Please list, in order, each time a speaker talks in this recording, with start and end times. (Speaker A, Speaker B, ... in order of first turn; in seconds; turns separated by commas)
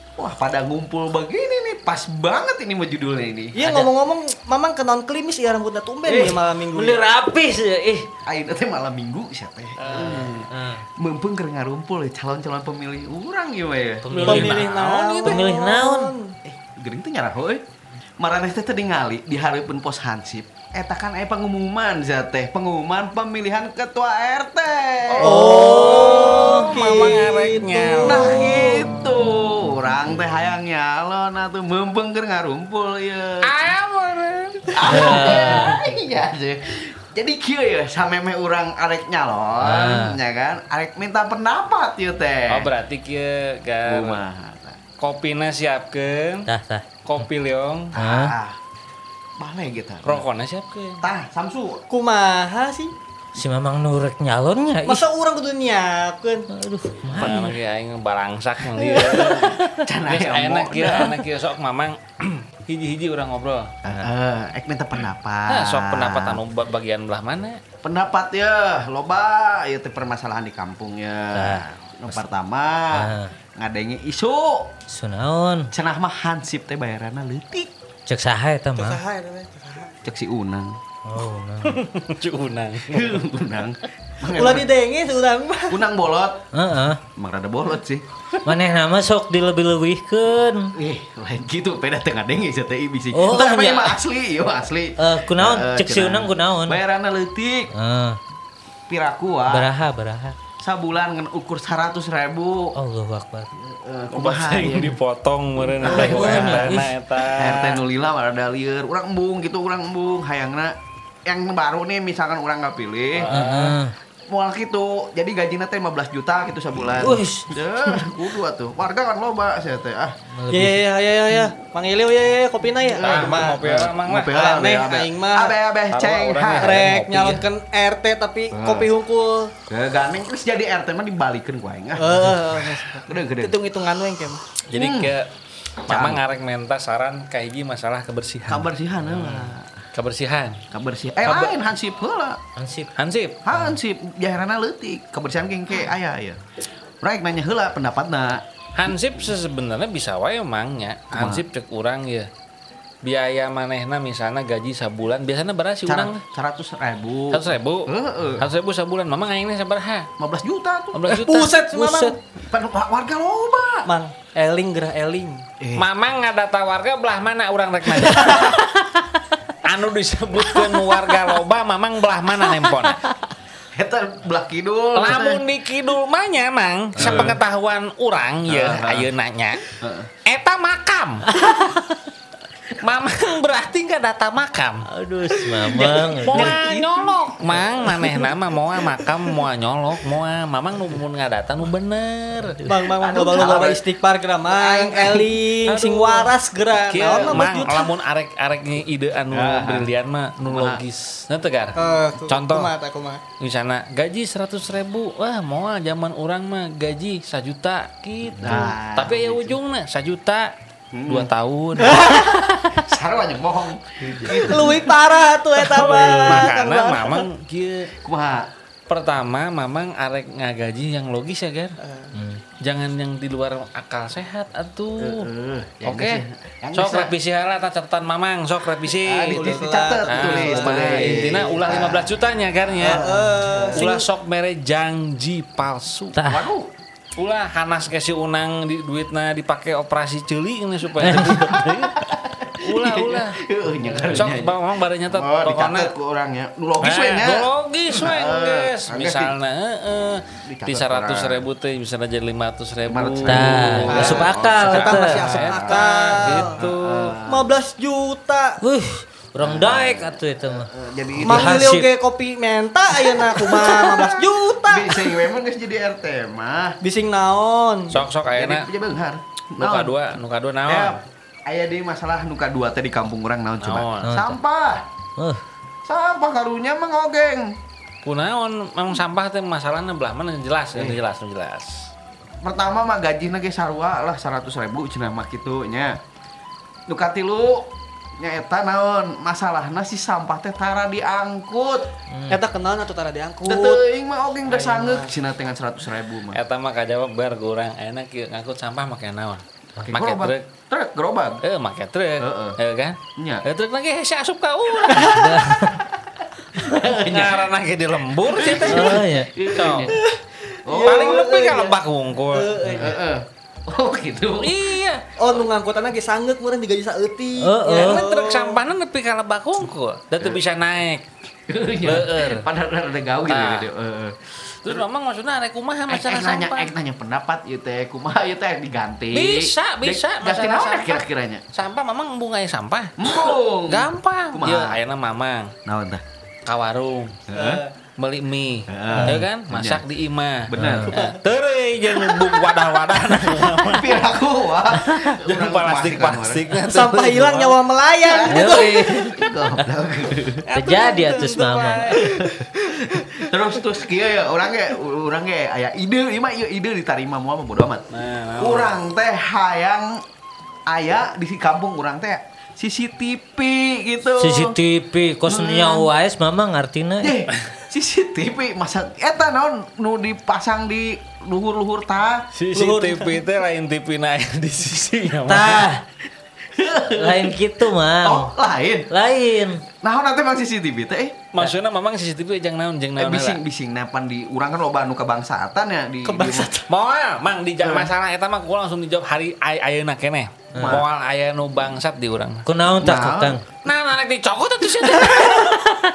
Speaker A: 0.2-3.6, Speaker B: 3.5-7.0, Speaker C: 3.6-3.9, Speaker C: 6.1-8.1, Speaker A: 6.1-6.4, Speaker A: 8.2-14.3, Speaker D: 9.8-10.5, Speaker C: 10.0-10.9, Speaker C: 14.0-16.1, Speaker D: 14.1-15.4, Speaker B: 14.2-16.3, Speaker A: 16.4-17.6, Speaker A: 18.2-26.4, Speaker D: 25.1-28.8, Speaker B: 25.2-28.7, Speaker C: 25.3-26.7, Speaker A: 28.0-33.5, Speaker D: 33.4-35.8, Speaker A: 34.7-42.7, Speaker C: 34.9-35.8, Speaker C: 39.6-40.2, Speaker D: 42.5-44.2, Speaker A: 43.8-44.8, Speaker D: 45.0-46.5, Speaker C: 46.5-47.3, Speaker D: 47.0-47.9, Speaker A: 47.9-48.6, Speaker C: 48.0-48.3, Speaker A: 49.4-50.2, Speaker D: 50.0-51.0, Speaker A: 51.0-51.8, Speaker B: 51.9-52.9, Speaker C: 53.3-55.0, Speaker B: 54.8-56.5, Speaker C: 56.5-57.5, Speaker D: 57.1-63.7, Speaker A: 57.2-57.5, Speaker A: 59.1-61.1, Speaker A: 63.8-66.4, Speaker D: 65.5-67.6, Speaker A: 67.8-74.7, Speaker C: 71.3-72.2, Speaker C: 72.9-73.3, Speaker C: 74.9-75.7, Speaker A: 75.7-77.7, Speaker C: 78.0-79.0, Speaker B: 78.8-79.9, Speaker A: 80.0-80.8, Speaker C: 81.0-81.8, Speaker D: 81.6-83.3, Speaker A: 82.9-84.7, Speaker B: 84.2-85.8, Speaker A: 85.7-86.4, Speaker C: 86.5-87.0, Speaker A: 87.2-88.0, Speaker C: 88.4-90.7, Speaker A: 90.8-97.7, Speaker C: 93.1-94.0, Speaker C: 95.0-96.8, Speaker C: 97.7-98.2, Speaker A: 98.9-99.7, Speaker C: 99.5-100.4, Speaker A: 100.6-102.7, Speaker C: 102.8-103.5, Speaker A: 103.6-105.0, Speaker D: 104.1-107.8, Speaker A: 105.6-106.8, Speaker C: 105.8-106.9, Speaker A: 107.3-110.7, Speaker A: 111.2-113.3, Speaker D: 113.1-113.8, Speaker C: 113.3-113.9, Speaker A: 114.3-120.2, Speaker C: 117.0-118.1, Speaker C: 120.3-120.8, Speaker B: 120.5-123.6, Speaker A: 122.8-126.9, Speaker D: 123.0-124.4, Speaker B: 124.3-125.6, Speaker D: 125.9-127.4, Speaker B: 126.6-129.5, Speaker A: 128.5-128.9, Speaker A: 129.7-133.7, Speaker B: 132.0-134.4, Speaker D: 134.7-135.3, Speaker A: 134.7-135.1, Speaker A: 135.8-136.2, Speaker D: 135.8-140.6, Speaker A: 138.5-139.7, Speaker A: 140.7-142.4, Speaker D: 141.2-141.6, Speaker C: 142.6-142.9, Speaker D: 142.9-143.4, Speaker A: 143.4-146.4, Speaker A: 147.0-148.4, Speaker D: 148.8-152.3, Speaker A: 151.1-151.4, Speaker D: 153.0-156.2, Speaker A: 155.8-158.5, Speaker D: 157.3-160.1, Speaker A: 160.2-161.1, Speaker D: 160.9-162.1, Speaker B: 161.1-162.2, Speaker A: 162.4-163.9, Speaker B: 163.8-165.4, Speaker A: 165.6-165.8, Speaker D: 165.8-168.6, Speaker B: 168.0-169.0, Speaker D: 169.6-173.0, Speaker B: 170.5-171.1, Speaker A: 173.7-175.4, Speaker D: 174.9-179.6, Speaker C: 176.9-177.2, Speaker A: 176.9-177.4, Speaker A: 178.5-179.1, Speaker A: 179.8-180.1, Speaker D: 180.2-181.3, Speaker C: 181.4-181.8, Speaker D: 182.8-184.8, Speaker C: 184.9-186.6, Speaker D: 185.9-192.6, Speaker A: 186.3-188.1, Speaker B: 192.6-197.9, Speaker A: 193.0-193.8, Speaker A: 194.5-195.4, Speaker D: 195.6-202.7, Speaker A: 199.3-200.8, Speaker B: 201.8-203.2, Speaker D: 203.4-210.5, Speaker A: 208.4-209.6, Speaker A: 210.9-211.3, Speaker D: 211.1-212.3, Speaker B: 211.9-212.3, Speaker A: 212.7-214.9, Speaker D: 214.0-214.8, Speaker B: 214.2-217.3, Speaker D: 215.6-217.9, Speaker C: 215.8-216.4, Speaker A: 218.0-218.5, Speaker D: 218.9-221.8, Speaker B: 221.8-222.2, Speaker C: 222.1-222.4, Speaker D: 222.6-225.3, Speaker A: 225.0-227.1, Speaker D: 225.8-229.5, Speaker A: 228.9-233.8, Speaker B: 229.3-231.5, Speaker D: 230.1-233.0, Speaker B: 232.8-233.9, Speaker D: 233.7-236.2, Speaker C: 236.1-236.5, Speaker A: 236.2-236.7, Speaker D: 237.2-242.1, Speaker C: 241.0-241.4, Speaker A: 241.1-249.3, Speaker D: 242.6-243.4, Speaker D: 244.1-245.9, Speaker D: 246.8-257.1, Speaker A: 250.4-251.5, Speaker A: 252.8-257.5, Speaker C: 253.2-255.4, Speaker B: 253.9-254.3, Speaker B: 255.3-256.6, Speaker B: 257.2-258.6, Speaker C: 258.6-261.9, Speaker A: 259.4-261.7, Speaker B: 261.2-265.1, Speaker A: 263.4-266.8, Speaker B: 266.8-268.0, Speaker D: 267.9-268.7, Speaker A: 268.3-270.0, Speaker D: 269.6-271.0, Speaker A: 270.6-274.8, Speaker D: 273.6-274.2, Speaker C: 274.0-274.4, Speaker A: 275.8-277.5, Speaker D: 278.0-281.9, Speaker A: 280.7-281.0, Speaker A: 282.4-286.0, Speaker A: 286.9-291.9, Speaker C: 292.1-292.4, Speaker B: 292.3-293.8, Speaker A: 293.4-296.4, Speaker B: 294.5-295.1, Speaker D: 296.3-300.4, Speaker A: 299.9-301.4, Speaker D: 301.4-305.6, Speaker A: 302.2-302.6, Speaker A: 303.1-303.4, Speaker B: 304.9-305.2, Speaker C: 305.0-305.8, Speaker A: 305.6-307.5, Speaker D: 306.8-310.0, Speaker A: 308.3-310.0, Speaker C: 308.7-309.3, Speaker B: 309.9-311.8, Speaker A: 310.6-311.1, Speaker D: 310.7-312.6, Speaker B: 312.3-313.0, Speaker A: 312.7-314.6, Speaker D: 314.4-315.4, Speaker B: 315.2-318.6, Speaker C: 317.4-318.0, Speaker D: 317.7-321.1, Speaker A: 321.5-324.8, Speaker D: 321.8-322.5, Speaker D: 323.2-323.7, Speaker D: 324.6-326.7, Speaker A: 325.9-331.4, Speaker D: 329.1-331.0, Speaker D: 331.5-335.5, Speaker A: 333.0-334.8, Speaker A: 335.6-336.0, Speaker D: 336.4-337.2, Speaker A: 337.3-337.6, Speaker B: 337.3-337.7, Speaker D: 338.0-344.0, Speaker A: 338.7-339.9, Speaker C: 338.9-339.2, Speaker A: 340.4-341.0, Speaker C: 340.6-341.0, Speaker A: 343.2-346.5, Speaker D: 344.7-347.6, Speaker B: 346.6-348.8, Speaker A: 348.0-350.4, Speaker C: 348.3-349.6, Speaker D: 350.5-352.0, Speaker C: 350.5-352.0, Speaker A: 351.9-357.9, Speaker D: 357.9-358.8, Speaker A: 358.4-360.0, Speaker A: 360.7-364.6, Speaker C: 364.2-367.1, Speaker A: 365.2-365.9, Speaker A: 367.0-372.3, Speaker D: 372.3-375.7, Speaker B: 372.5-373.2, Speaker C: 375.2-375.8, Speaker A: 376.5-377.4, Speaker C: 376.9-378.3, Speaker A: 378.0-378.9, Speaker C: 378.9-379.6, Speaker A: 379.8-381.5, Speaker D: 381.3-383.4, Speaker A: 383.0-386.5, Speaker B: 386.0-386.7, Speaker D: 386.7-392.5, Speaker A: 387.6-387.9, Speaker C: 390.5-390.8, Speaker A: 390.5-390.9, Speaker C: 392.4-393.4, Speaker A: 392.8-393.4, Speaker D: 393.6-395.6, Speaker A: 395.0-395.4